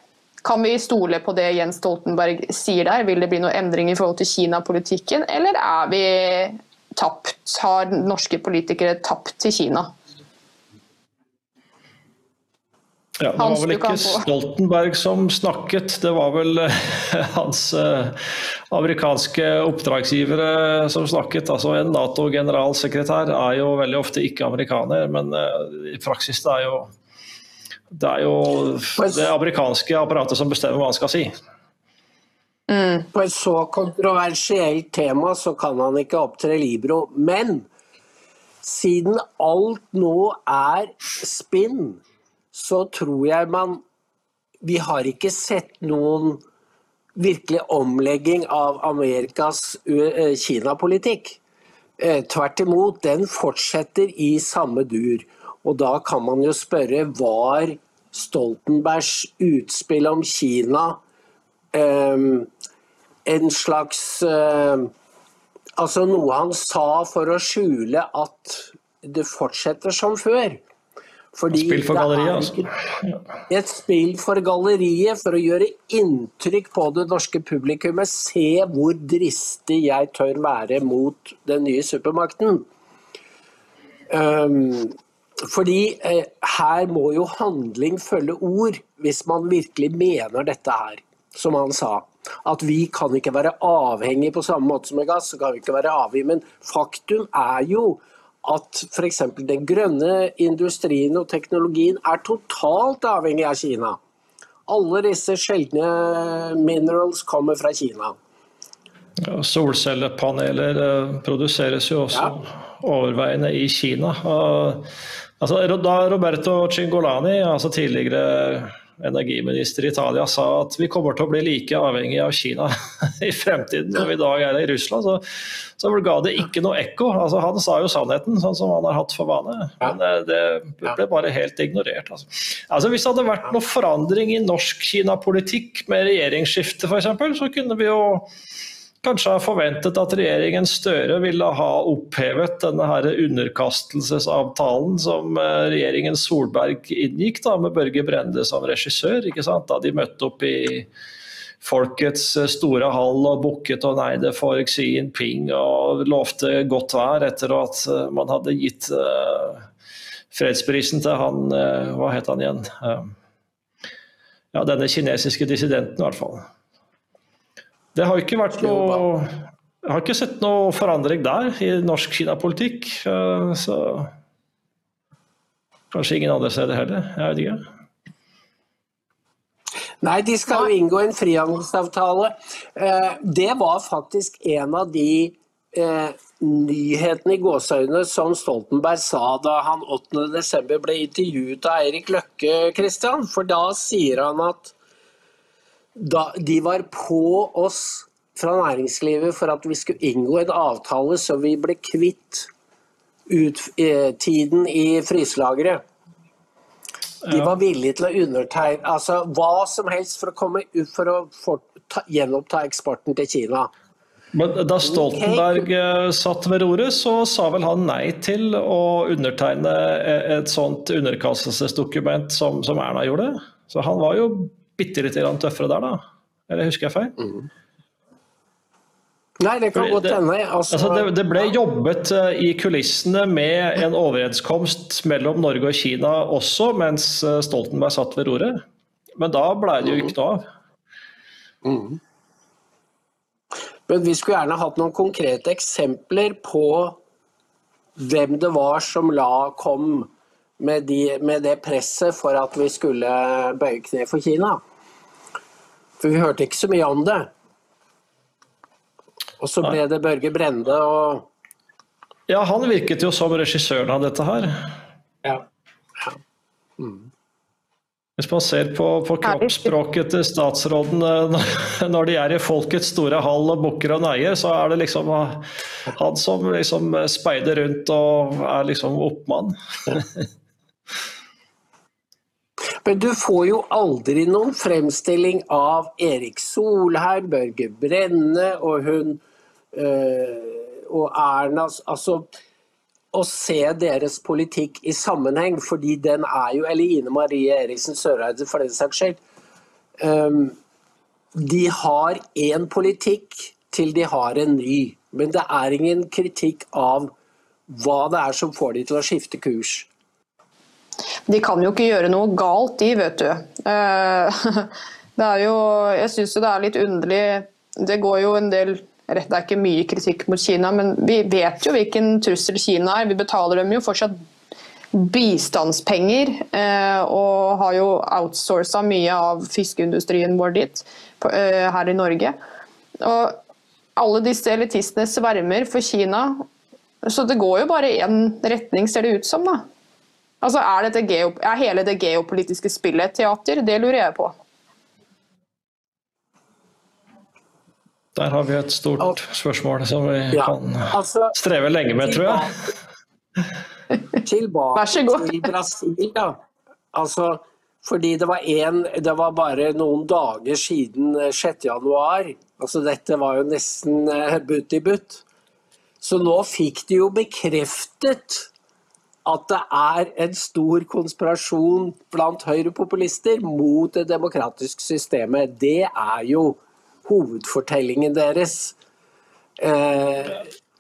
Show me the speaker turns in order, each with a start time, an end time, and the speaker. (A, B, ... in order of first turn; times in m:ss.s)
0:00.4-0:09.9 A
0:13.2-0:26.9 B
0:13.4-0:14.3 A
0:27.9-0:31.3 B
0:29.0-0:29.3 C
0:32.7-0:33.1 A
0:33.1-0:37.7 C
0:38.6-0:42.0 C
0:42.5-0:43.8 C
0:44.6-0:46.4 C
0:47.2-0:51.4 C
0:52.0-1:01.0 C
1:01.7-1:02.5 C
1:03.3-1:04.9 C
1:05.8-1:10.6 C
1:11.3-1:12.7 C
1:11.5-1:13.2 B
1:13.5-1:22.7 C
1:24.1-1:44.0 C
1:44.7-1:48.2 C
1:49.2-1:54.9 B
1:55.4-2:18.3 B
2:19.0-2:30.9 B
2:31.6-2:39.7 B
2:40.3-2:43.1 B
2:44.5-2:46.5 B
2:48.0-2:54.1 B
2:48.6-2:49.0 C
2:55.9-2:57.6 B
3:00.0-3:14.7 C
3:16.0-3:22.5 C
3:23.3-3:25.8 C
3:27.2-3:27.6 B
3:27.3-3:33.7 C
3:34.3-3:47.2 B
3:34.8-3:35.7 C
3:49.4-3:51.5 C
3:49.7-3:50.2 B
3:50.7-3:58.6 B
3:59.2-4:00.5 B
3:59.8-4:00.1 C
4:01.6-4:02.0 C
4:03.9-4:07.0 C
4:08.0-4:14.6 C
4:16.0-4:17.3 C
4:19.4-4:21.3 C
4:22.3-4:24.7 B
4:26.8-4:27.1 C
4:28.2-4:40.3 B
4:42.8-4:49.2 C
4:49.7-4:52.3 C
4:53.1-4:59.2 C
5:00.0-5:00.6 C
5:01.4-5:07.1 C
5:07.7-5:09.9 C
5:11.3-5:24.2 A
5:24.9-5:32.4 A
5:33.0-5:33.4 A
5:34.0-5:36.5 A
5:37.0-5:39.7 A
5:40.4-5:44.4 A
5:48.2-5:52.5 B
5:50.3-5:51.4 C
5:52.0-5:52.6 C
5:54.2-5:56.4 C
5:54.8-5:55.5 A
5:56.9-6:05.2 C
6:06.0-6:08.5 C
6:09.2-6:18.8 C
6:19.6-6:20.5 C